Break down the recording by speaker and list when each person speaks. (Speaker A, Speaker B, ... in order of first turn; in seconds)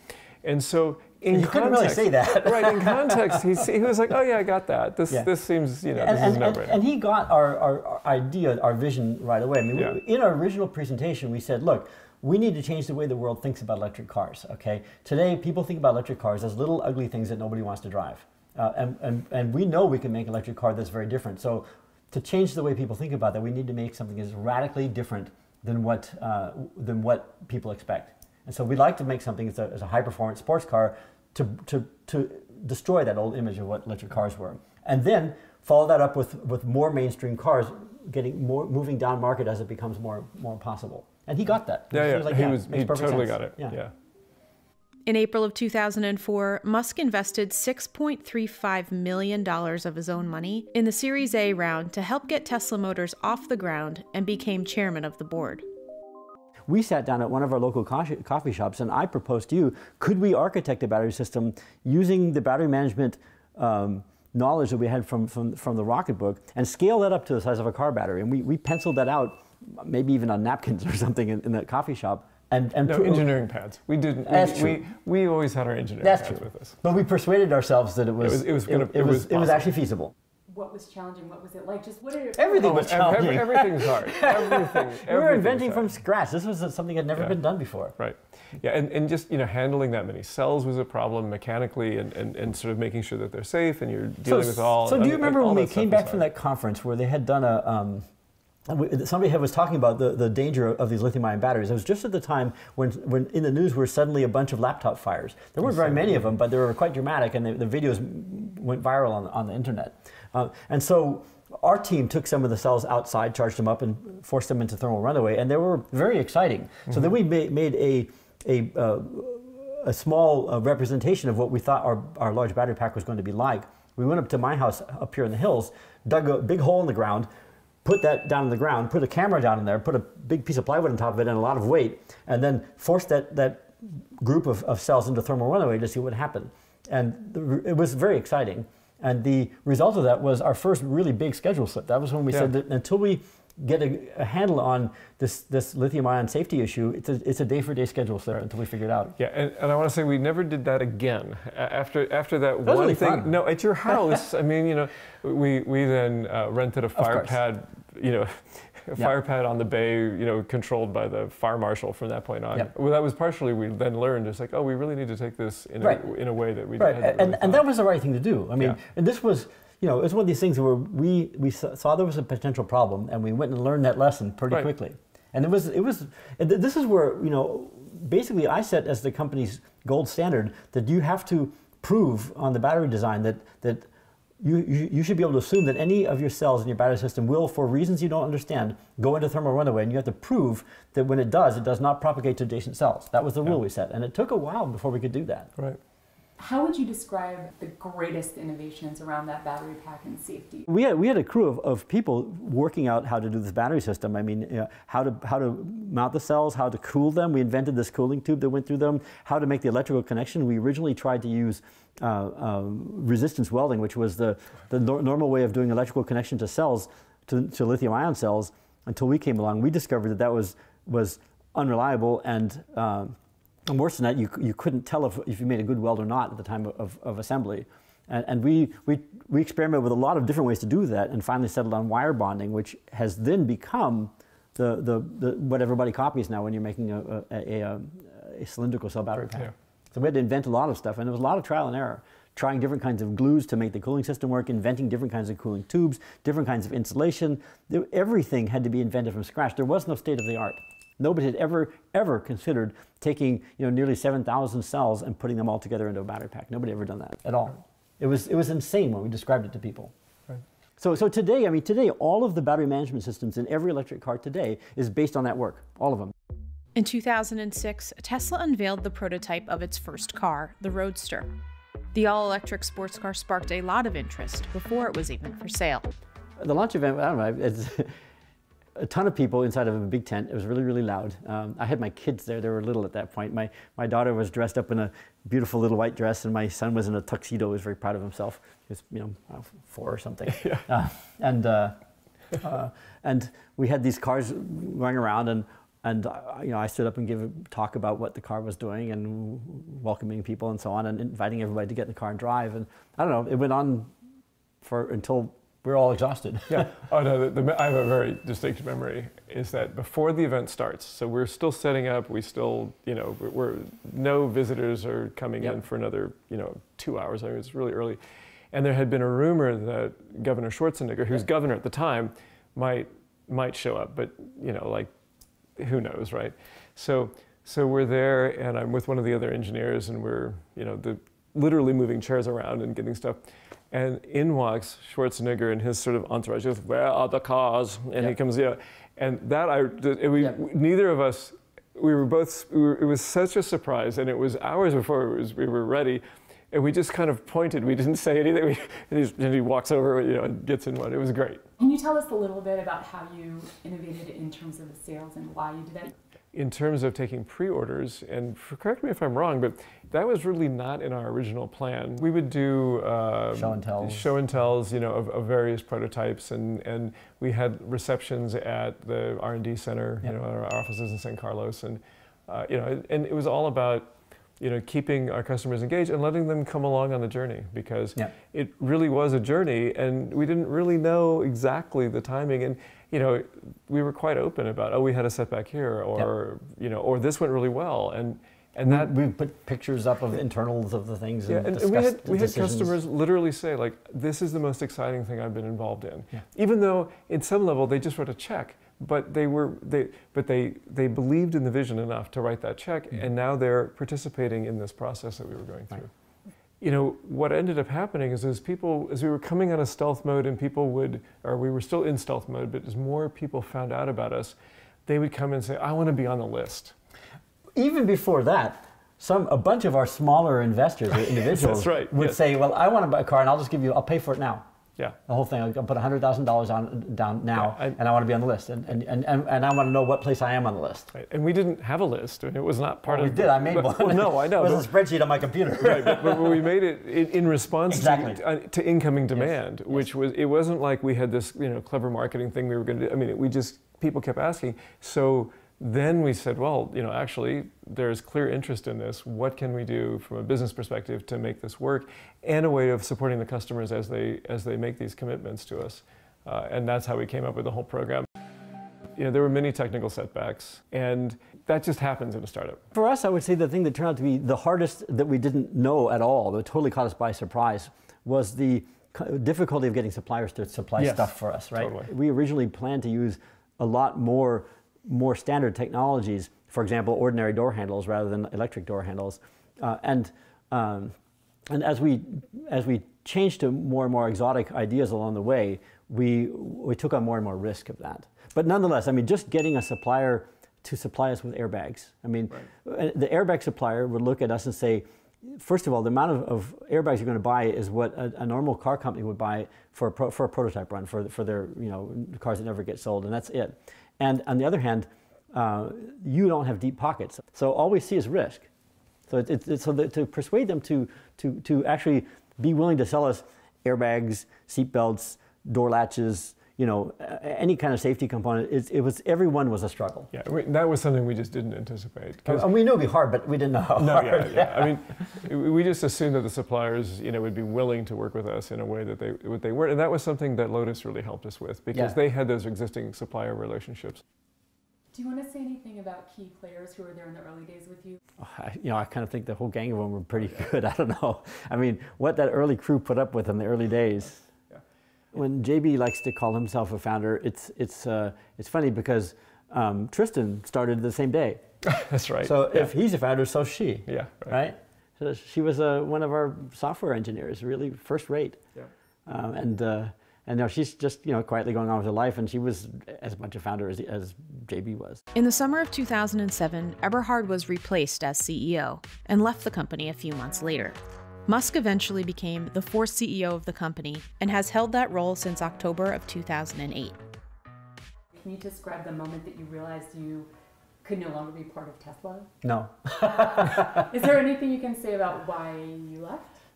Speaker A: 0.4-6.8, 41.9-43.9, 72.8-76.8, 78.2-79.7, 82.6-85.9, 88.0-96.2, 149.2-167.7, 290.3-290.6, 306.5-318.0, 318.5-324.9, 325.6-351.4, 356.3-388.9, 391.3-405.9, 406.6-414.4, 414.9-416.8, 421.1-422.2, 427.4-427.8, 430.9-434.7, 435.6-458.1, 458.9-462.6, 470.8-471.9, 520.1-522.5, 523.8-534.0, 551.6-552.7, 553.9-554.4
Speaker B: 1.3-3.6, 5.9-43.8, 56.7-73.3, 74.2-74.8, 76.0-80.1, 82.4-87.9, 94.2-98.0, 98.7-127.3, 127.8-149.1, 152.6-153.4, 156.9-157.4, 166.8-183.9, 184.4-195.5, 200.7-259.9, 260.8-266.1, 276.4-277.9, 278.8-291.8, 292.3-303.9, 304.6-306.7, 363.3-364.1, 388.6-392.8, 417.5-424.4, 425.1-430.9, 432.9-436.4, 437.7-438.2, 439.1-439.9, 462.7-480.9, 481.5-508.5, 509.1-520.1, 522.2-524.8, 538.2-544.3, 545.1-551.4, 552.2-558.4, 559.1-565.0, 582.4-583.9
Speaker C: 45.0-55.6, 266.8-271.3, 271.9-275.9, 565.1-577.0
Speaker D: 80.5-83.3, 196.4-200.7, 351.6-355.9, 534.9-538.0, 578.1-580.3, 580.8-582.3, 583.0-586.4